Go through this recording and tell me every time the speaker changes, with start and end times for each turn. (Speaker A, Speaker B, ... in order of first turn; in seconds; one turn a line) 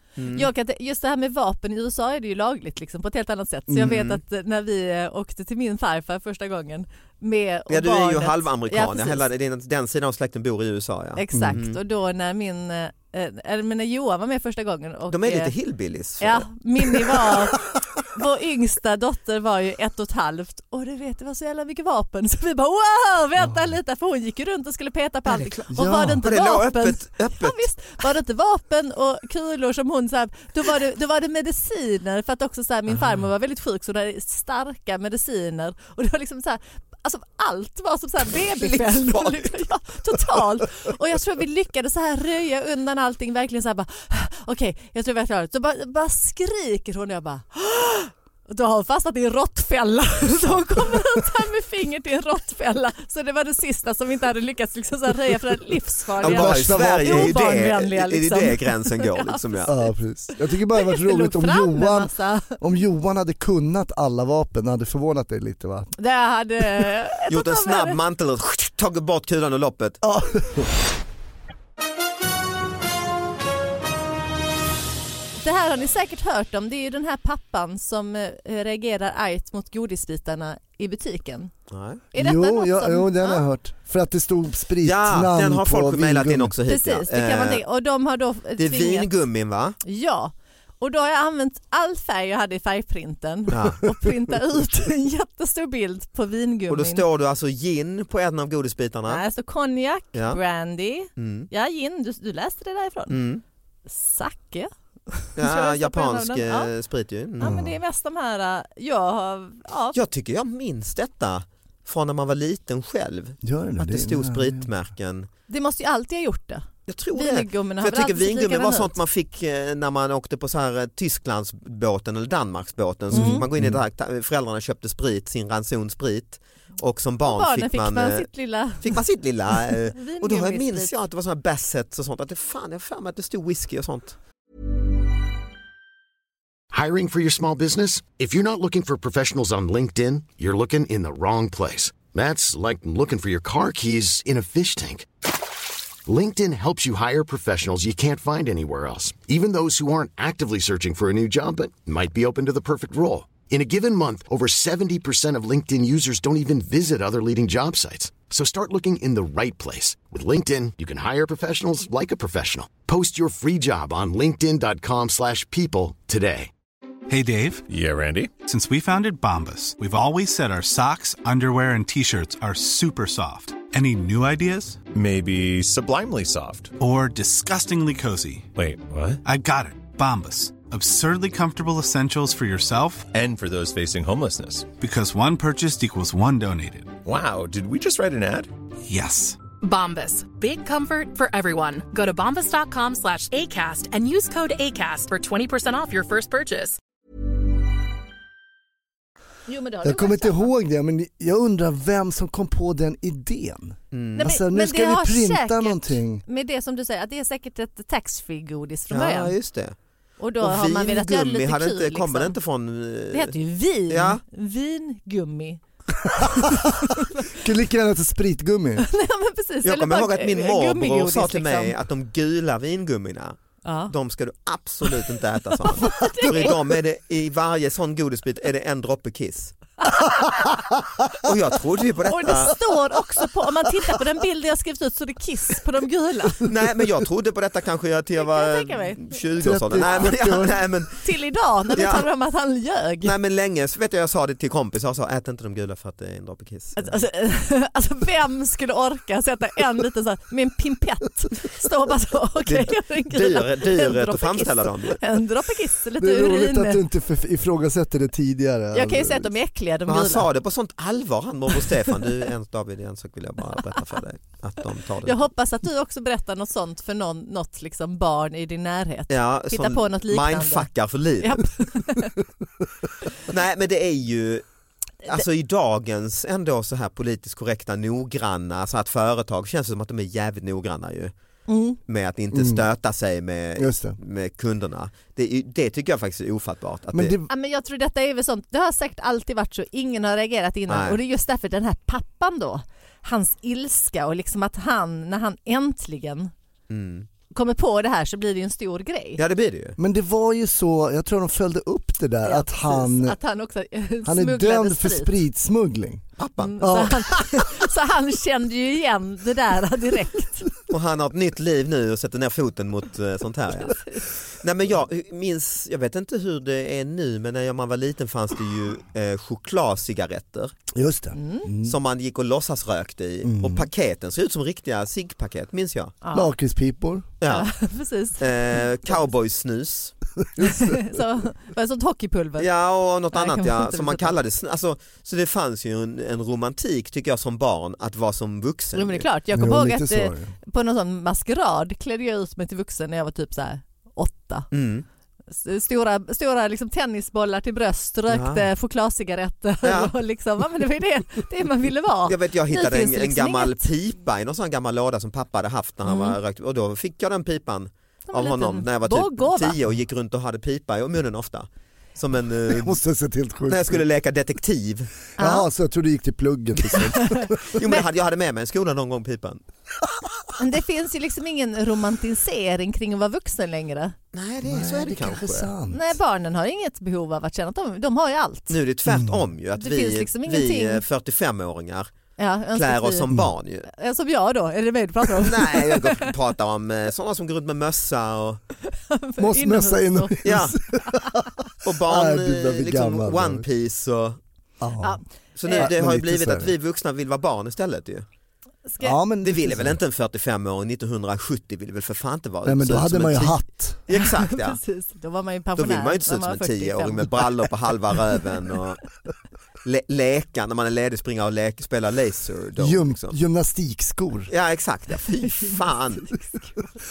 Speaker A: 0.2-0.5
Speaker B: 0.3-9.2
Speaker A: 3.8-4.2
Speaker A: 7.7-11.8
Speaker B: 11.2-15.5
Speaker C: 11.3-11.6
Speaker A: 15.1-16.5
Speaker B: 16.2-59.9
Speaker A: 25.4-25.6
Speaker C: 25.7-26.2
Speaker A: 26.2-27.7
Speaker A: 38.5-39.6
Speaker A: 56.2-59.7
Speaker C: 56.2-57.4
Speaker C: 59.7-65.9
Speaker B: 60.7-62.6
Speaker B: 66.0-68.0
Speaker A: 67.3-70.0
Speaker C: 70.0-70.7
Speaker B: 75.4-81.5
Speaker A: 81.7-82.0
Speaker B: 82.1-83.4
Speaker C: 82.1-86.5
Speaker A: 84.8-87.6
Speaker B: 86.7-89.1
Speaker A: 88.6-89.8
Speaker B: 89.8-97.0
Speaker A: 93.5-93.8
Speaker A: 96.7-99.2
Speaker B: 99.1-103.2
Speaker A: 100.1-100.4
Speaker A: 101.2-101.5
Speaker A: 103.1-103.4
Speaker B: 103.9-106.7
Speaker A: 105.3-107.6
Speaker B: 107.4-110.0
Speaker C: 107.4-107.8
Speaker A: 109.9-115.3
Speaker C: 113.4-114.7
Speaker B: 115.5-118.9
Speaker A: 116.9-128.3
Speaker B: 123.1-123.5
Speaker C: 123.1-123.8
Speaker B: 127.2-128.9
Speaker A: 128.8-134.2
Speaker B: 129.9-130.9
Speaker D: 136.7-145.1
Speaker D: 146.0-166.5
Speaker E: 167.1-167.6
Speaker F: 167.7-168.3
Speaker E: 168.4-174.8
Speaker F: 174.9-176.8
Speaker E: 176.8-178.5
Speaker F: 178.5-179.2
Speaker E: 179.2-183.1
Speaker F: 183.1-184.7
Speaker E: 184.8-186.9
Speaker F: 187.0-188.5
Speaker E: 188.8-189.4
Speaker G: 189.6-196.8
Speaker B: 199.5-200.5
Speaker C: 199.8-206.2
Speaker A: 203.9-204.3
Speaker B: 204.2-209.3
Speaker A: 208.9-209.8
Speaker B: 210.2-212.3
Speaker A: 210.4-213.3
Speaker B: 213.1-215.6
Speaker A: 213.9-214.2
Speaker C: 216.2-216.6
Speaker B: 216.2-217.2
Speaker C: 217.4-218.8
Speaker B: 218.8-221.7
Speaker A: 219.6-229.6
Speaker B: 223.6-223.9
Speaker B: 225.7-226.6
Speaker A: 231.2-232.6
Speaker B: 232.1-236.4
Speaker A: 236.4-241.0
Speaker B: 238.2-239.1
Speaker C: 239.4-240.6
Speaker B: 241.0-243.1
Speaker A: 241.7-242.1
Speaker A: 243.0-246.9
Speaker B: 246.8-256.8
Speaker A: 252.4-255.0
Speaker C: 256.0-259.3
Speaker B: 258.7-260.3
Speaker A: 259.9-265.3
Speaker B: 265.0-270.7
Speaker A: 269.1-271.5
Speaker B: 271.2-272.1
Speaker A: 273.2-274.4
Speaker A: 275.0-281.1
Speaker B: 281.5-281.8
Speaker A: 281.9-287.1
Speaker C: 282.3-282.6
Speaker C: 283.6-283.9
Speaker C: 286.9-287.3
Speaker B: 287.3-296.3
Speaker A: 290.7-291.0
Speaker A: 296.7-297.1
Speaker B: 297.3-299.2
Speaker A: 299.2-299.8
Speaker C: 299.8-303.2
Speaker B: 302.2-305.2
Speaker C: 304.0-307.0
Speaker A: 306.2-306.8
Speaker B: 306.4-310.5
Speaker A: 310.7-313.8
Speaker B: 313.7-314.0
Speaker A: 314.4-320.5
Speaker C: 320.7-321.8
Speaker B: 321.1-321.5
Speaker A: 321.6-325.9
Speaker C: 323.2-323.7
Speaker B: 326.0-326.3
Speaker C: 326.1-327.1
Speaker A: 327.2-327.5
Speaker B: 327.3-328.3
Speaker A: 328.2-329.9
Speaker C: 330.4-330.8
Speaker B: 330.4-332.5
Speaker A: 332.4-339.1
Speaker B: 333.1-334.1
Speaker B: 338.7-344.5
Speaker C: 339.3-340.3
Speaker A: 344.5-344.9
Speaker B: 345.3-353.7
Speaker A: 348.1-348.5
Speaker A: 349.6-349.9
Speaker A: 352.1-362.8
Speaker B: 355.9-356.1
Speaker B: 358.1-359.6
Speaker C: 362.5-363.8
Speaker A: 363.5-364.9
Speaker B: 365.2-365.4
Speaker C: 365.2-367.4
Speaker B: 367.0-367.8
Speaker A: 367.5-369.4
Speaker B: 370.4-373.9
Speaker A: 374.1-375.5
Speaker C: 374.4-376.0
Speaker B: 375.7-378.5
Speaker A: 378.5-381.9
Speaker C: 378.9-379.2
Speaker B: 379.6-380.8
Speaker B: 382.2-383.1
Speaker A: 382.5-383.7
Speaker B: 383.7-386.1
Speaker A: 385.2-388.4
Speaker B: 388.7-391.1
Speaker C: 389.2-391.3
Speaker A: 390.2-390.5
Speaker A: 391.6-394.2
Speaker C: 391.9-393.4
Speaker C: 394.6-395.0
Speaker B: 394.8-395.7
Speaker A: 395.4-398.0
Speaker C: 395.5-396.5
Speaker B: 398.6-399.0
Speaker C: 398.8-399.8
Speaker A: 399.2-404.6
Speaker C: 402.4-403.8
Speaker B: 403.9-407.3
Speaker A: 405.6-408.8
Speaker A: 409.6-413.1
Speaker C: 412.6-414.3
Speaker A: 414.3-416.1
Speaker B: 416.1-416.5